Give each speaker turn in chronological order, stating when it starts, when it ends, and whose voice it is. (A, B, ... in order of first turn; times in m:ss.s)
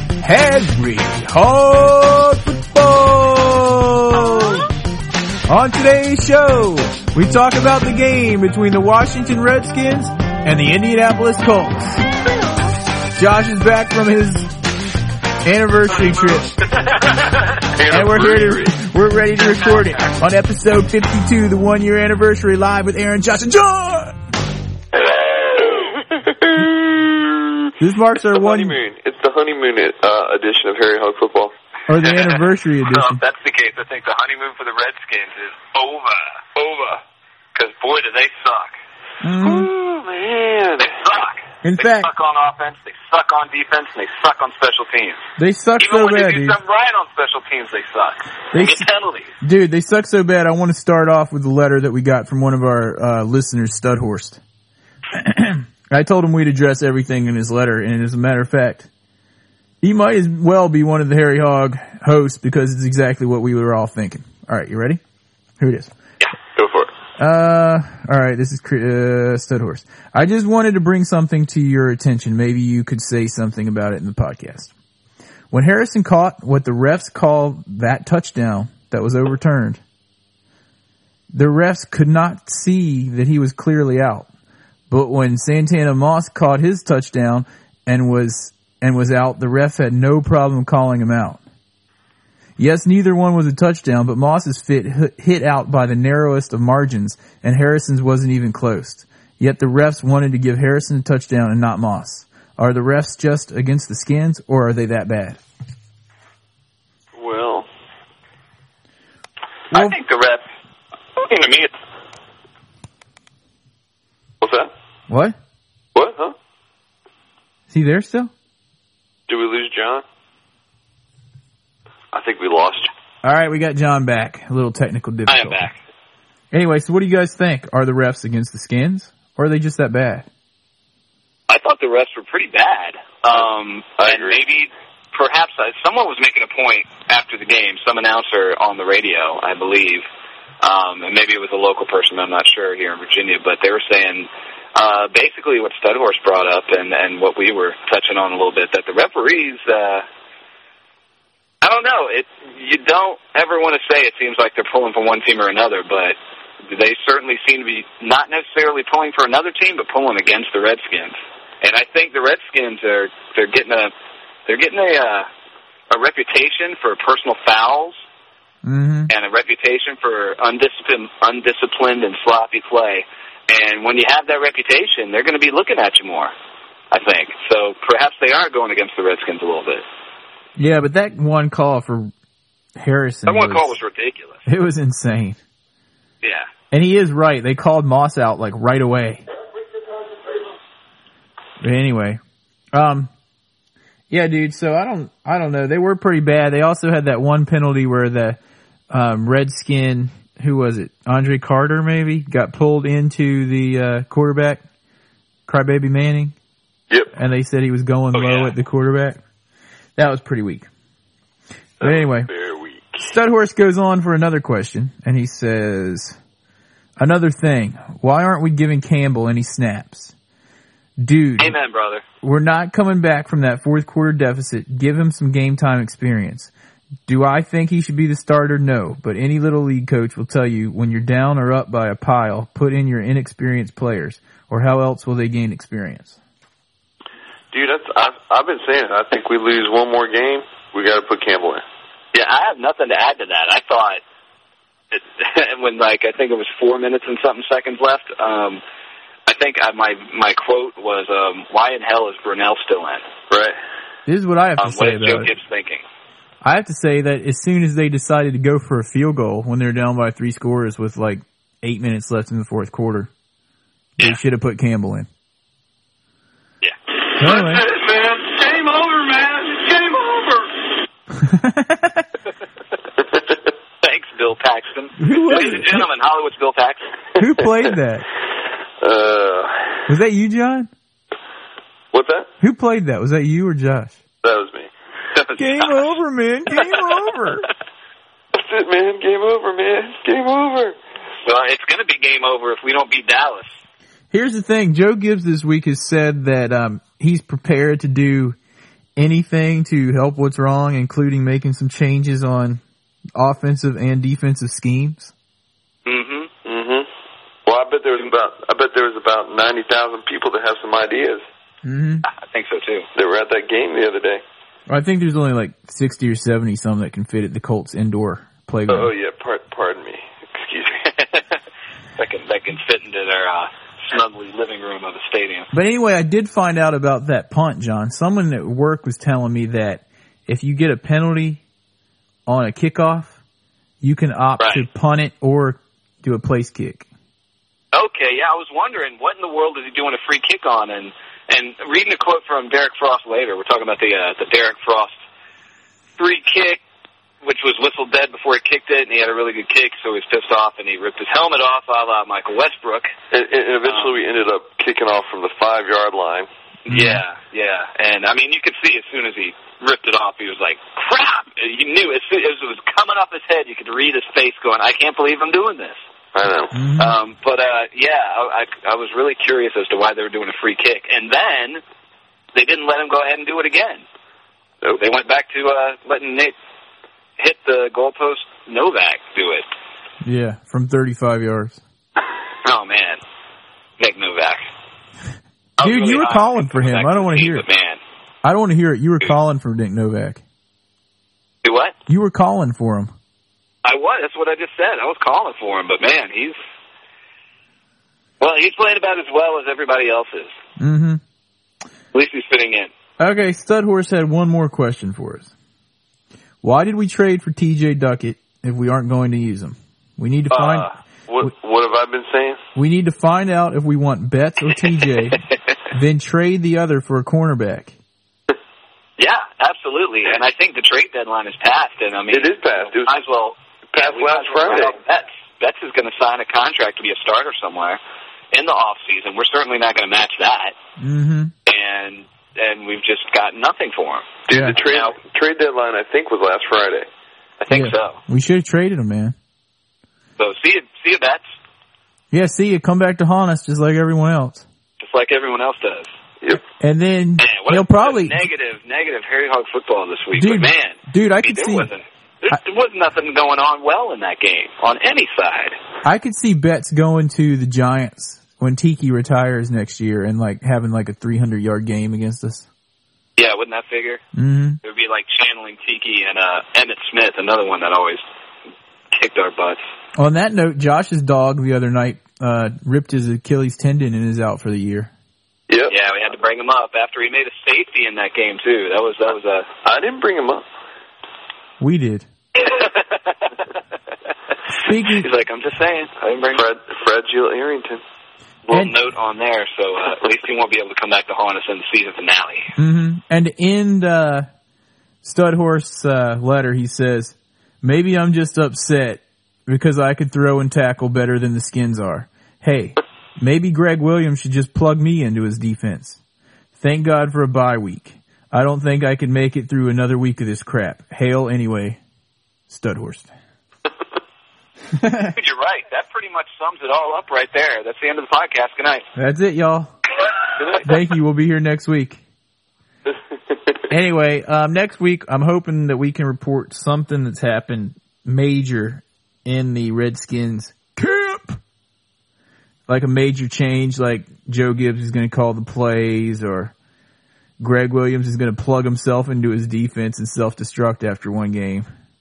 0:00.2-0:04.7 A
0:05.5-0:12.0 A
0:13.2-0:14.5 A
0:15.4-0:16.5 A
0:16.2-0:17.6 B
0:17.7-0:18.8 C
0:17.9-0:24.2 A
0:24.9-0:27.7 C
0:27.8-0:28.8 A
0:28.3-0:31.5 C
0:31.9-0:33.2 A
0:32.0-0:36.4 B
0:36.6-0:37.0 C
0:37.6-0:38.8 B
0:39.2-0:39.7 A
0:39.4-0:40.9 C
0:40.8-0:45.2 B
0:41.6-0:42.1 A
0:45.4-0:46.6 A
0:45.8-0:49.3 B
0:48.5-0:48.9 A
0:49.4-0:54.4 A
0:55.1-0:58.9 A
0:59.8-1:05.0 A
1:05.6-1:05.9 A
1:06.6-1:06.9 C
1:07.2-1:14.7 A
1:15.5-1:19.8 A
1:21.3-1:24.3 A
1:24.9-1:31.4 A
1:32.6-1:45.4 A
1:47.2-1:47.7 C
1:49.7-1:50.5 B
1:51.2-1:51.7 B
1:54.4-1:54.7 C
1:55.1-1:55.4 A
1:56.0-1:56.4 C
1:57.7-1:58.3 A
1:59.3-2:00.0 C
2:02.1-2:02.9 C
2:03.2-2:05.7 A
2:05.3-2:05.8 B
2:06.5-2:10.3 A
2:11.5-2:20.0 B
2:14.0-2:14.4 C
2:20.6-2:30.0 B
2:31.6-2:43.9 B
2:44.5-2:45.3 B
2:45.9-2:48.0 B
2:48.6-2:49.1 A
2:49.1-2:56.3 B
2:56.9-2:59.8 B
3:00.6-3:02.1 A
3:02.8-3:03.7 A
3:03.3-3:04.4 B
3:04.5-3:05.4 A
3:06.2-3:06.5 B
3:06.7-3:09.2 A
3:11.6-3:12.2 A
3:12.7-3:13.1 A
3:14.1-3:18.4 A
3:18.9-3:24.6 A
3:25.5-3:26.4 A
3:27.1-3:29.2 A
3:28.1-3:28.5 B
3:30.0-3:30.7 A
3:31.8-3:32.3 A
3:31.8-3:33.1 C
3:33.0-3:36.2 A
3:37.0-3:40.1 A
3:41.0-3:41.6 A
3:41.4-3:42.0 B
3:42.2-3:46.5 A
3:47.1-3:56.2 A
3:57.5-4:01.6 C
4:02.1-4:04.0 B
4:04.9-4:08.6 B
4:09.3-4:13.0 B
4:13.3-4:13.6 C
4:14.1-4:15.3 A
4:14.6-4:15.8 B
4:16.4-4:23.1 A
4:24.0-4:25.1 A
4:27.2-4:27.7 A
4:27.4-4:30.5 C
4:31.1-4:32.1 A
4:33.8-4:36.9 B
4:35.0-4:35.8 A
4:37.2-4:38.1 A
4:38.8-4:39.9 C
4:39.9-4:40.7 A
4:41.9-4:42.3 C
4:42.4-4:44.0 A
4:44.2-4:44.7 C
4:45.1-4:45.8 B
4:45.4-4:47.5 A
4:48.3-4:50.8 C
4:51.2-4:53.5 B
4:54.1-4:58.4 A
4:59.0-5:02.6 A
5:03.2-5:05.1 A
5:05.9-5:06.3 B
5:06.4-5:06.9 C
5:07.5-5:11.2 C
5:11.6-5:12.0 A
5:12.0-5:12.9 B
5:13.0-5:14.2 C
5:14.7-5:18.9 A
5:18.7-5:20.9 C
5:20.9-5:21.4 B
5:22.0-5:25.5 B
5:25.5-5:31.4 A
5:32.3-5:33.2 A
5:33.8-5:36.9 A
5:34.4-5:34.6 B
5:37.7-5:45.0 B
5:46.0-5:46.6 B
5:47.2-5:52.9 B
5:53.1-5:56.3 C
5:53.7-5:53.9 B
5:56.7-6:05.8 B
5:56.7-5:57.0 A
6:06.1-6:06.6 C
6:06.5-6:07.0 A
6:06.8-6:11.6 B
6:12.3-6:13.8 B
6:14.8-6:16.4 B
6:17.2-6:19.5 B
6:20.0-6:21.6 A
6:22.4-6:23.0 B
6:23.8-6:24.4 B
6:25.6-6:27.8 B
6:25.6-6:27.4 A
6:28.2-6:30.2 A
6:31.4-6:31.8 B
6:31.9-6:32.9 A
6:33.6-6:36.4 B
6:38.2-6:40.4 B
6:40.6-6:41.0 A
6:41.9-6:42.7 B
6:43.0-6:45.3 A
6:46.4-6:51.3 A
6:50.4-6:50.6 B
6:50.4-6:52.4 C
6:52.6-6:57.7 A
6:59.0-7:07.8 B
7:02.1-7:03.0 C
7:03.7-7:04.8 C
7:08.3-7:10.6 B
7:10.8-7:11.3 A
7:11.5-7:15.0 B
7:14.3-7:16.9 C
7:14.3-7:14.6 A
7:17.4-7:18.0 B
7:17.5-7:19.2 A
7:20.2-7:21.2 B
7:22.1-7:24.4 A
7:24.8-7:25.9 B
7:26.6-7:28.2 A
7:27.2-7:35.6 B
7:30.2-7:31.7 A
7:35.8-7:42.5 A
7:43.2-7:44.0 B
7:44.1-7:44.6 A
7:44.6-7:48.0 B
7:48.9-7:49.6 B
7:50.0-7:54.9 A
7:55.5-7:55.7 C
7:55.7-7:59.5 B
7:59.6-8:00.4 C
8:01.6-8:02.1 A
8:02.4-8:03.5 B
8:04.6-8:05.1 A
8:04.7-8:06.4 B
8:06.3-8:07.8 C
8:08.5-8:12.5 B
8:12.6-8:14.3 A
8:15.0-8:26.0 A
8:26.6-8:31.8 A
8:32.5-8:33.1 A
8:34.7-8:35.2 A
8:35.2-8:38.9 B
8:39.0-8:39.7 A
8:40.6-8:42.0 A
8:42.9-8:43.6 C
8:43.7-8:51.4 A
8:52.7-8:56.5 A
8:57.4-9:01.7 A